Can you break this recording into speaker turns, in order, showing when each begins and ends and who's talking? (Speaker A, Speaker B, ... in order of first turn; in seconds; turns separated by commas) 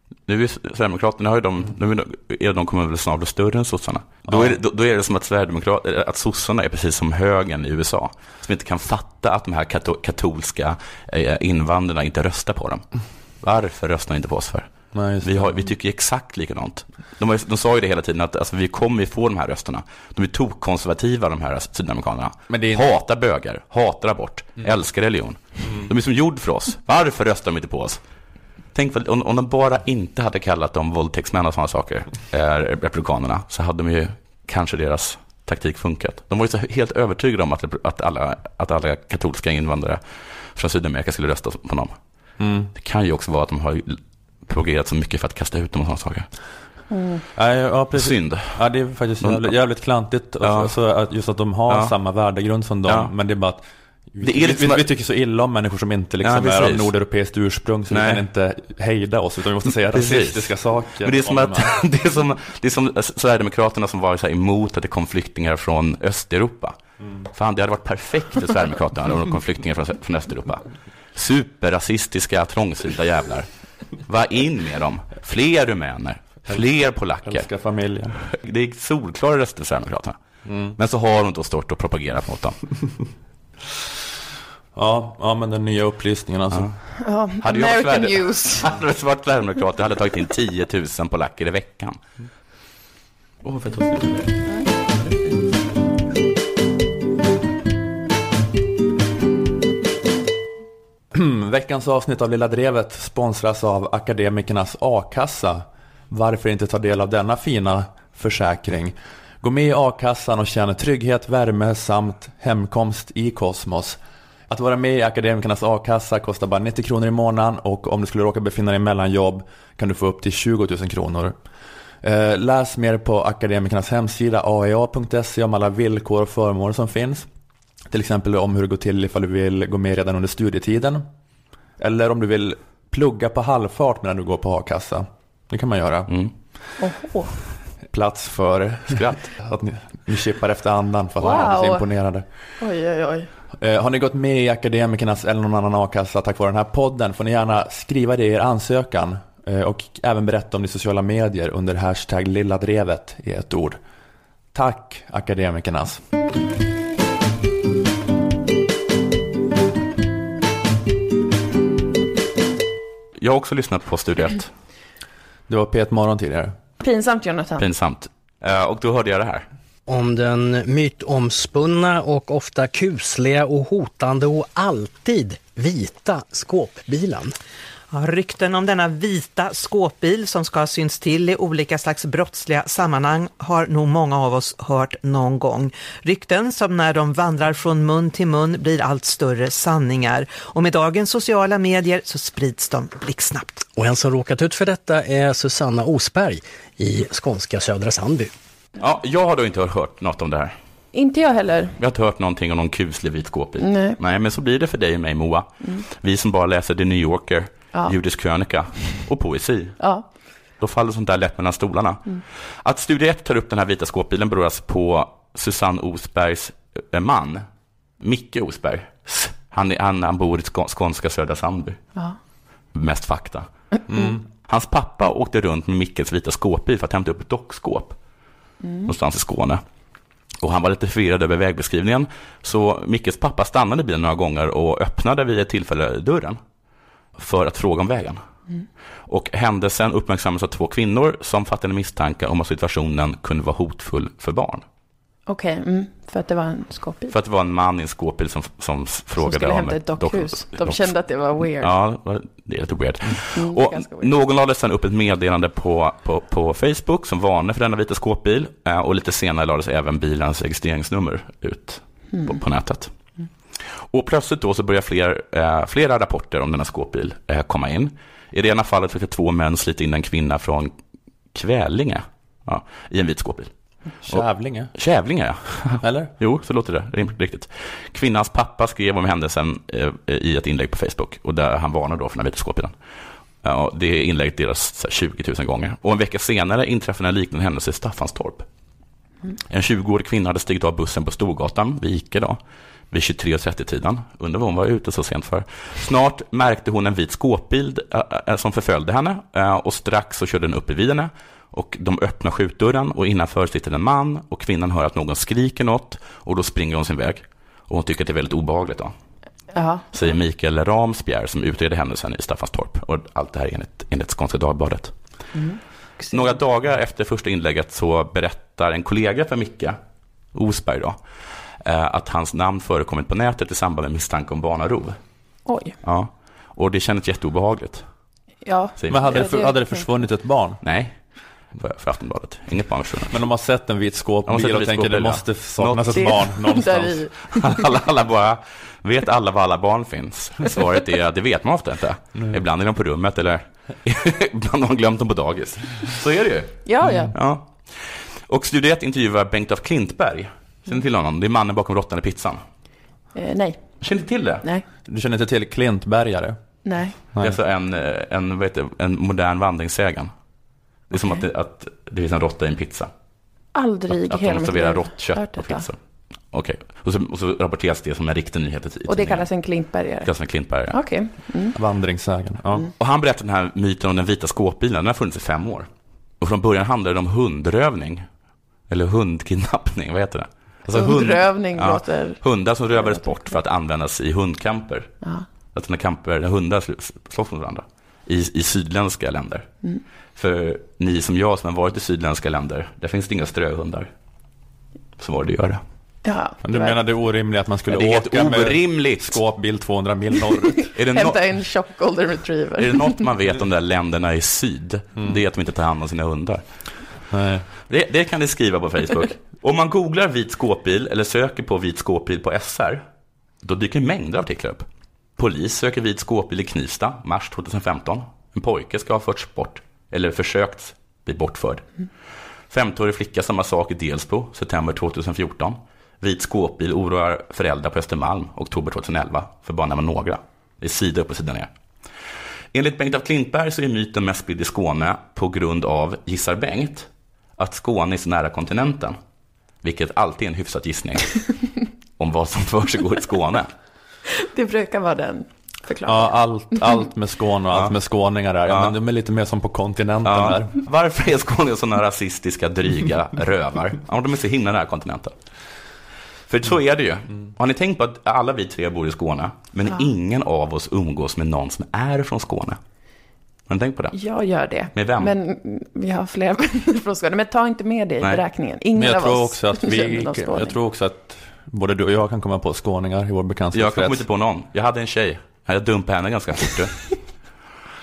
Speaker A: 0.3-12.8, Speaker B: 4.3-4.6, Speaker A: 13.4-14.7, Speaker B: 14.9-15.6, Speaker A: 15.2-28.0, Speaker B: 22.5-22.9, Speaker A: 28.7-42.0, Speaker B: 42.4-42.7, Speaker A: 42.8-46.3, Speaker C: 46.9-47.2, Speaker B: 47.4-61.7, Speaker A: 48.0-48.6, Speaker A: 49.2-49.5, Speaker A: 50.4-50.7, Speaker A: 52.9-53.1, Speaker A: 54.2-54.8, Speaker A: 56.2-56.9, Speaker A: 57.9-58.2, Speaker A: 59.9-66.8, Speaker A: 67.3-77.5, Speaker B: 77.2-78.2, Speaker A: 78.2-80.2, Speaker B: 80.5-80.8, Speaker A: 80.8-82.7, Speaker B: 84.8-86.7, Speaker A: 86.5-86.8, Speaker C: 87.0-88.7, Speaker A: 87.4-92.0, Speaker A: 93.4-95.4, Speaker B: 101.1-121.4, Speaker B: 122.0-127.3, Speaker B: 127.9-131.1, Speaker B: 131.8-136.1, Speaker A: 136.1-136.3, Speaker C: 136.8-137.3, Speaker B: 137.9-142.3, Speaker A: 138.9-139.3, Speaker C: 141.2-141.8, Speaker C: 142.6-143.3, Speaker B: 143.6-153.8, Speaker B: 154.5-156.0, Speaker A: 163.2-164.5, Speaker B: 165.5-166.6, Speaker C: 166.8-167.7, Speaker A: 167.6-169.5, Speaker D: 169.9-177.3, Speaker E: 177.9-193.6, Speaker D: 193.7-198.3, Speaker A: 198.8-200.6, Speaker C: 200.9-201.7, Speaker A: 201.8-209.9, Speaker C: 203.6-204.0, Speaker C: 209.8-210.1, Speaker A: 210.6-217.5, Speaker A: 218.0-221.8, Speaker A: 222.7-223.5, Speaker B: 223.9-224.2, Speaker A: 224.4-228.0, Speaker C: 228.6-228.9, Speaker A: 228.8-229.6, Speaker A: 230.4-236.4, Speaker A: 237.2-238.2, Speaker A: 239.1-244.6, Speaker C: 245.3-247.1, Speaker A: 247.1-250.9, Speaker C: 249.2-251.7, Speaker A: 251.6-262.9, Speaker C: 253.3-254.1, Speaker C: 262.1-262.4, Speaker A: 263.6-270.7, Speaker A: 271.3-273.5, Speaker B: 274.0-274.7, Speaker A: 274.1-282.8, Speaker B: 275.8-276.1, Speaker A: 283.4-288.5, Speaker A: 289.5-292.4, Speaker A: 292.9-308.9, Speaker C: 309.5-309.9, Speaker A: 309.9-314.9, Speaker C: 315.3-316.3, Speaker A: 316.1-319.8, Speaker A: 320.3-321.0, Speaker A: 321.6-325.0, Speaker C: 325.5-325.8, Speaker A: 325.8-327.9, Speaker C: 328.4-329.9, Speaker A: 328.8-329.3, Speaker B: 328.9-330.6, Speaker A: 330.6-331.0, Speaker A: 331.5-333.2, Speaker B: 333.1-337.1, Speaker A: 334.3-336.4, Speaker C: 335.9-337.5, Speaker A: 337.3-352.4, Speaker C: 346.7-347.1, Speaker B: 346.8-347.1, Speaker C: 353.1-353.6, Speaker A: 353.8-354.4, Speaker B: 354.9-356.4, Speaker C: 356.7-356.9, Speaker A: 357.2-360.1, Speaker A: 360.9-362.9, Speaker C: 363.5-365.7, Speaker A: 363.9-369.3, Speaker C: 368.9-370.1, Speaker A: 370.0-370.8, Speaker C: 370.7-371.6, Speaker B: 371.6-372.7, Speaker A: 372.8-375.7, Speaker A: 376.2-378.1, Speaker A: 378.7-385.0, Speaker C: 380.7-382.2, Speaker C: 382.7-383.4, Speaker A: 385.5-389.5, Speaker A: 390.2-393.9, Speaker A: 395.0-395.6, Speaker C: 396.1-396.8, Speaker B: 396.4-400.6, Speaker A: 397.7-399.2, Speaker C: 400.7-403.0, Speaker A: 400.7-401.3, Speaker A: 402.6-406.4, Speaker B: 407.1-407.5, Speaker A: 407.7-412.8, Speaker A: 413.4-414.7, Speaker A: 415.2-421.9, Speaker A: 422.5-431.5, Speaker A: 432.5-439.0, Speaker A: 439.6-441.4, Speaker A: 442.0-443.5, Speaker C: 444.2-446.7, Speaker B: 445.9-450.5, Speaker A: 448.5-448.8, Speaker A: 450.1-455.1, Speaker A: 456.3-462.6, Speaker A: 463.5-464.0, Speaker C: 463.9-470.6, Speaker A: 464.7-465.1, Speaker B: 468.8-474.0, Speaker A: 473.5-476.9